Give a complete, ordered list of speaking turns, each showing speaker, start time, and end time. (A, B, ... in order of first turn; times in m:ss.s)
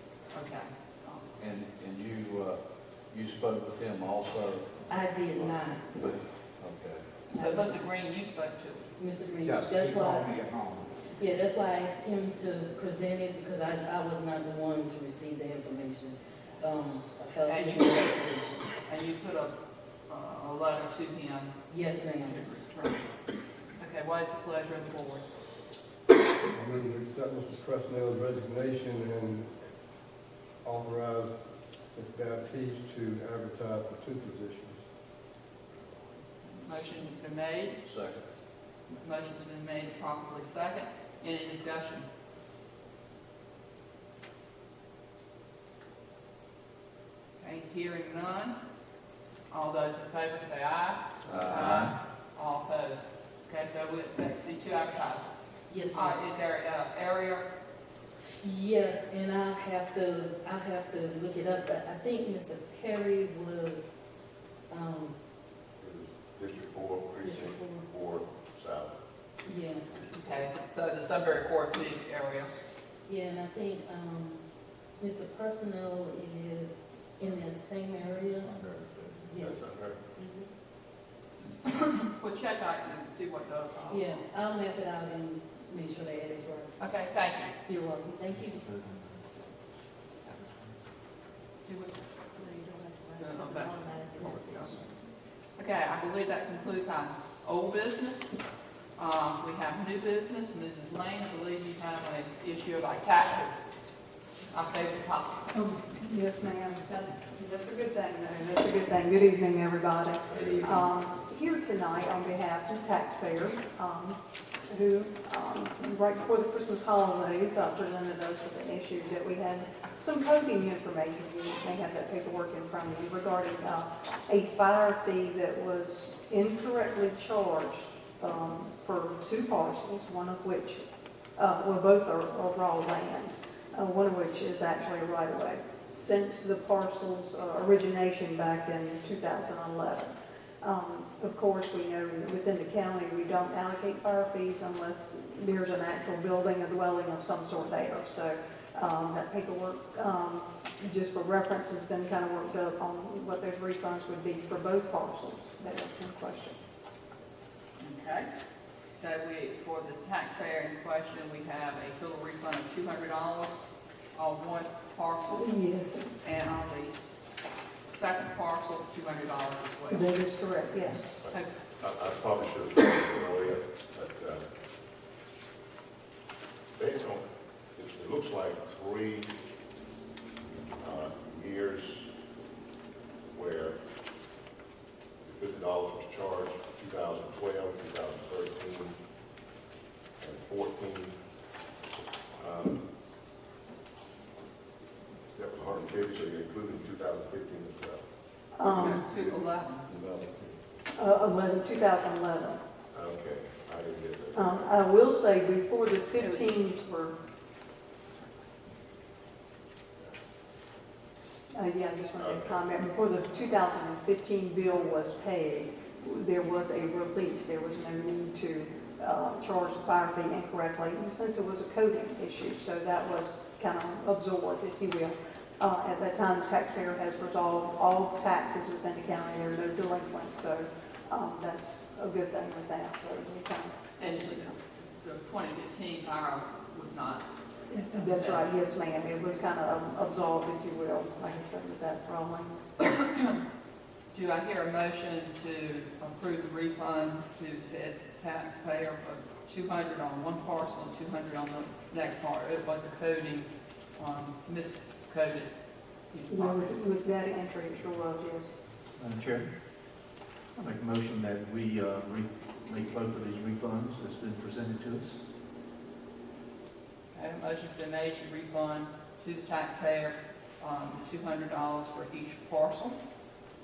0:00.3-0:01.3 A
0:01.4-0:05.4 B
0:04.9-0:05.8 C
0:06.0-0:07.0 B
0:07.3-0:08.9 A
0:07.4-0:07.8 C
0:09.0-0:10.4 C
0:11.2-0:18.7 C
0:17.5-0:19.6 A
0:20.1-0:23.1 A
0:21.7-0:22.5 C
0:23.8-0:25.3 A
0:26.5-0:29.8 D
0:30.6-0:34.9 D
0:36.5-0:37.8 A
0:37.8-0:38.3 B
0:38.9-0:42.1 A
0:47.4-0:48.6 A
0:49.5-0:57.5 A
0:51.2-0:51.8 B
0:55.7-0:56.2 C
0:58.4-1:03.9 C
1:04.7-1:05.2 C
1:05.8-1:08.9 E
1:07.2-1:07.9 C
1:09.4-1:09.9 C
1:09.9-1:10.5 E
1:10.1-1:12.5 A
1:13.1-1:14.4 C
1:15.0-1:18.6 C
1:19.2-1:19.8 C
1:19.3-1:20.0 E
1:21.6-1:24.2 A
1:23.9-1:26.8 C
1:26.8-1:27.5 A
1:27.6-1:28.7 C
1:28.4-1:29.0 F
1:31.7-1:32.1 A
1:32.5-1:34.8 C
1:33.2-1:34.9 A
1:35.6-1:38.3 A
1:39.0-1:43.6 A
1:44.5-1:45.5 A
1:45.5-2:10.8 G
1:50.3-1:50.7 E
1:50.3-1:50.8 A
2:11.4-2:36.6 G
2:37.8-2:38.3 A
2:38.9-2:45.5 A
2:45.4-2:46.1 G
2:46.2-2:47.3 A
2:47.9-2:50.1 A
2:49.9-2:51.1 G
2:51.2-2:54.4 E
2:56.8-2:59.3 E
3:00.8-3:02.1 E
3:03.3-3:03.8 E
3:05.2-3:08.9 E
3:10.2-3:11.1 E
3:12.4-3:12.8 E
3:15.4-3:18.0 E
3:18.6-3:19.0 G
3:18.6-3:19.8 A
3:18.7-3:20.6 E
3:21.0-3:22.6 G
3:22.9-3:24.8 E
3:24.3-3:27.2 G
3:26.2-3:26.7 A
3:28.1-3:28.4 A
3:31.5-3:54.6 G
3:32.2-3:32.6 E
3:54.0-3:57.3 A
3:57.7-4:02.6 G
3:57.9-3:58.6 A
4:02.8-4:03.3 A
4:04.1-4:15.5 A
4:16.1-4:16.8 A
4:16.3-4:18.5 G
4:19.0-4:19.5 F
4:20.7-4:25.2 F
4:27.1-4:33.0 A